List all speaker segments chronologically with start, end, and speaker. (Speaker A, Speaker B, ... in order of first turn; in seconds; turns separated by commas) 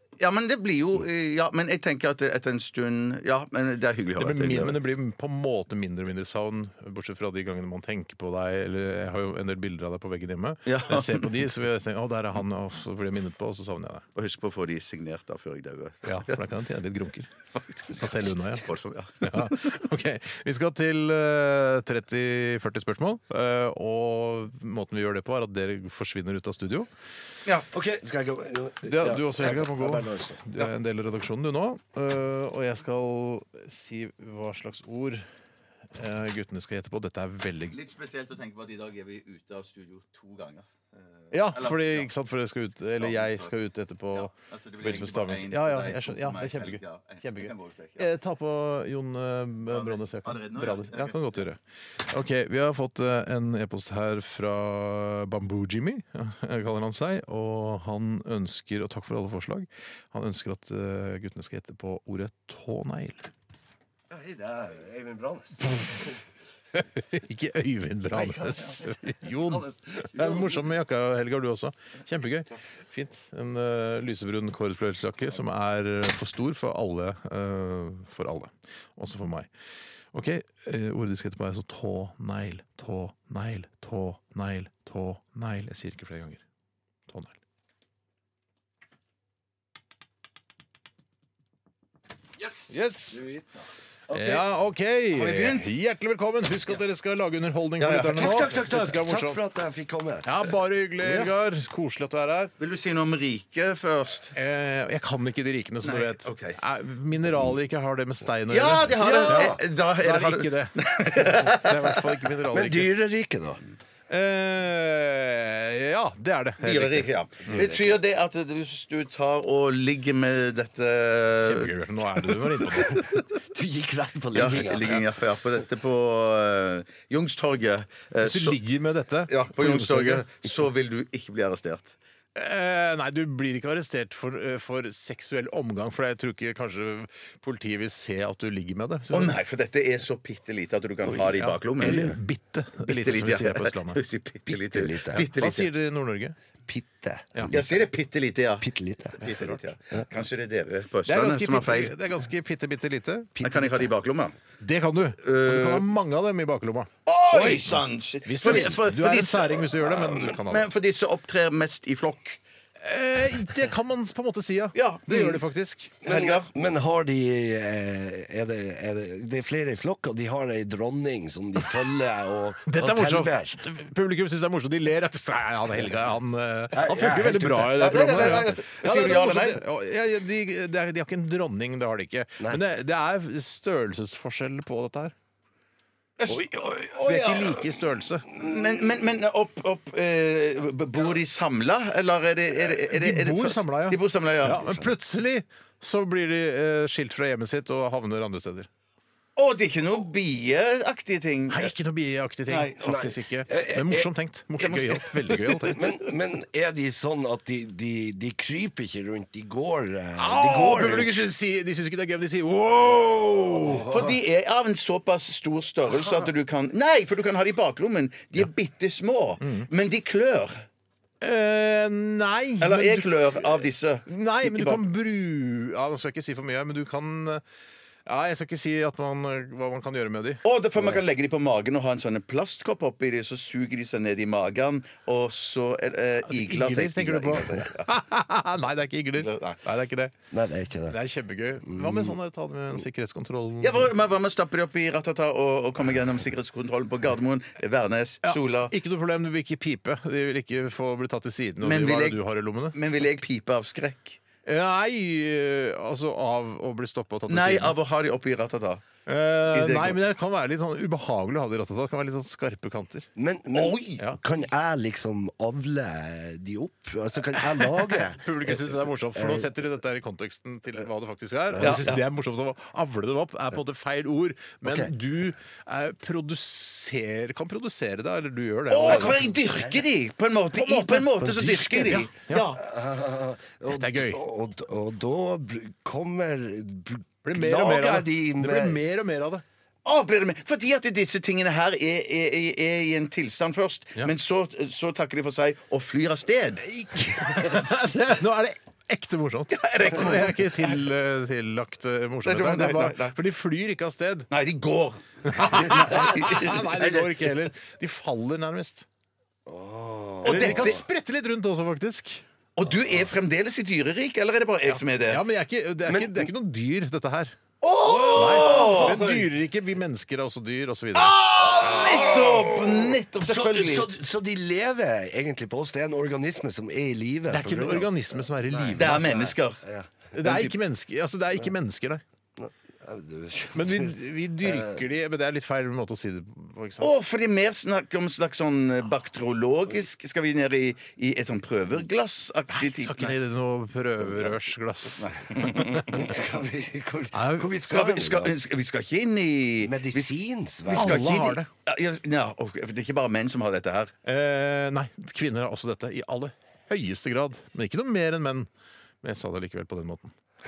Speaker A: 0.2-4.8, Speaker B: 4.2-14.1, Speaker A: 10.7-11.4, Speaker A: 14.2-16.4, Speaker B: 16.1-17.3, Speaker A: 17.5-19.8, Speaker B: 18.0-18.6, Speaker B: 19.2-26.9, Speaker C: 27.7-30.4, Speaker B: 28.8-35.2, Speaker B: 36.0-37.8, Speaker A: 37.7-40.7, Speaker A: 41.2-42.1, Speaker B: 41.3-51.6, Speaker A: 42.6-43.5, Speaker A: 44.1-48.1, Speaker A: 49.7-51.5, Speaker B: 52.1-63.3, Speaker C: 64.1-66.0, Speaker B: 66.7-79.5, Speaker C: 68.1-70.6, Speaker B: 80.1-86.4, Speaker B: 87.1-87.3, Speaker B: 92.7-93.2, Speaker C: 93.1-93.6, Speaker A: 94.1-94.4, Speaker B: 94.1-99.4, Speaker A: 95.1-95.7, Speaker A: 97.8-98.5, Speaker C: 98.1-100.3, Speaker B: 100.2-102.5, Speaker A: 101.0-101.3, Speaker A: 102.6-104.3, Speaker B: 104.3-112.9, Speaker A: 105.8-106.6, Speaker A: 108.5-112.0, Speaker C: 109.1-109.6, Speaker C: 112.5-113.6, Speaker B: 114.1-117.7, Speaker A: 116.6-121.8, Speaker C: 117.5-118.0, Speaker B: 121.4-123.0, Speaker A: 122.3-123.2, Speaker C: 123.4-125.0, Speaker A: 124.3-128.6, Speaker B: 128.2-130.3, Speaker A: 129.3-132.0, Speaker B: 132.3-139.3, Speaker A: 139.1-142.2, Speaker C: 141.0-142.1, Speaker B: 141.4-144.0, Speaker A: 142.8-145.7, Speaker C: 144.5-145.3, Speaker B: 145.2-146.3, Speaker C: 146.7-147.8, Speaker A: 147.5-151.9, Speaker C: 148.6-149.3, Speaker B: 149.2-149.6, Speaker B: 151.1-153.4, Speaker C: 153.4-153.8, Speaker A: 153.4-154.3, Speaker B: 154.6-156.9, Speaker A: 155.2-155.9, Speaker A: 157.1-162.4, Speaker C: 157.3-157.8, Speaker B: 158.3-160.7, Speaker B: 162.8-165.9, Speaker A: 164.8-165.4, Speaker A: 166.0-166.5, Speaker C: 166.0-173.6, Speaker B: 172.7-185.1, Speaker C: 176.7-178.5, Speaker A: 177.7-179.6, Speaker A: 186.2-187.6, Speaker C: 186.3-186.6, Speaker B: 187.0-188.3, Speaker A: 188.3-194.7, Speaker B: 192.8-198.7, Speaker A: 199.4-201.7, Speaker B: 201.5-205.8, Speaker A: 202.5-202.8, Speaker C: 202.8-204.1, Speaker A: 204.6-205.9, Speaker C: 205.7-211.2, Speaker B: 210.2-213.9, Speaker C: 213.5-214.2, Speaker A: 213.9-220.7, Speaker C: 215.9-216.3, Speaker B: 219.4-219.7, Speaker B: 221.2-223.1, Speaker A: 222.6-224.8, Speaker B: 224.1-227.4, Speaker B: 228.1-230.4, Speaker A: 230.4-237.9, Speaker B: 236.3-240.1, Speaker A: 239.2-239.6, Speaker C: 240.3-241.0, Speaker B: 240.9-243.9, Speaker C: 241.7-242.2, Speaker A: 243.6-248.7, Speaker B: 248.2-252.8, Speaker A: 251.6-252.2, Speaker A: 252.7-254.2, Speaker B: 254.5-257.8, Speaker A: 257.3-258.8, Speaker B: 259.1-263.1, Speaker A: 259.5-260.0, Speaker C: 263.2-269.5, Speaker A: 263.5-264.0, Speaker B: 268.1-279.4, Speaker C: 271.5-271.8, Speaker A: 271.6-272.0, Speaker C: 274.6-274.9, Speaker A: 278.7-282.6, Speaker C: 279.4-279.9, Speaker C: 280.6-288.8, Speaker B: 283.7-284.2, Speaker B: 287.2-289.4, Speaker A: 289.9-296.6, Speaker B: 296.6-304.3, Speaker A: 299.5-300.8, Speaker A: 302.2-303.2, Speaker A: 304.3-307.1, Speaker B: 305.3-308.9, Speaker C: 309.5-310.8, Speaker A: 310.2-310.8, Speaker B: 310.2-312.2, Speaker A: 312.6-315.2, Speaker C: 312.7-313.0, Speaker B: 314.7-317.4, Speaker C: 315.9-316.3, Speaker A: 317.6-319.1, Speaker C: 317.8-319.3, Speaker B: 318.1-321.5, Speaker A: 320.9-323.9, Speaker C: 321.4-329.9, Speaker B: 327.3-329.0, Speaker A: 328.8-329.6, Speaker B: 330.1-332.0, Speaker A: 330.2-330.6, Speaker C: 332.4-334.8, Speaker B: 333.5-336.9, Speaker A: 336.8-343.1, Speaker B: 342.5-345.9, Speaker A: 345.0-346.1, Speaker C: 345.9-348.3, Speaker B: 347.1-347.5, Speaker A: 347.7-350.2, Speaker C: 349.6-351.2, Speaker A: 350.7-353.9, Speaker B: 350.7-351.5, Speaker B: 354.1-358.5, Speaker B: 359.0-360.1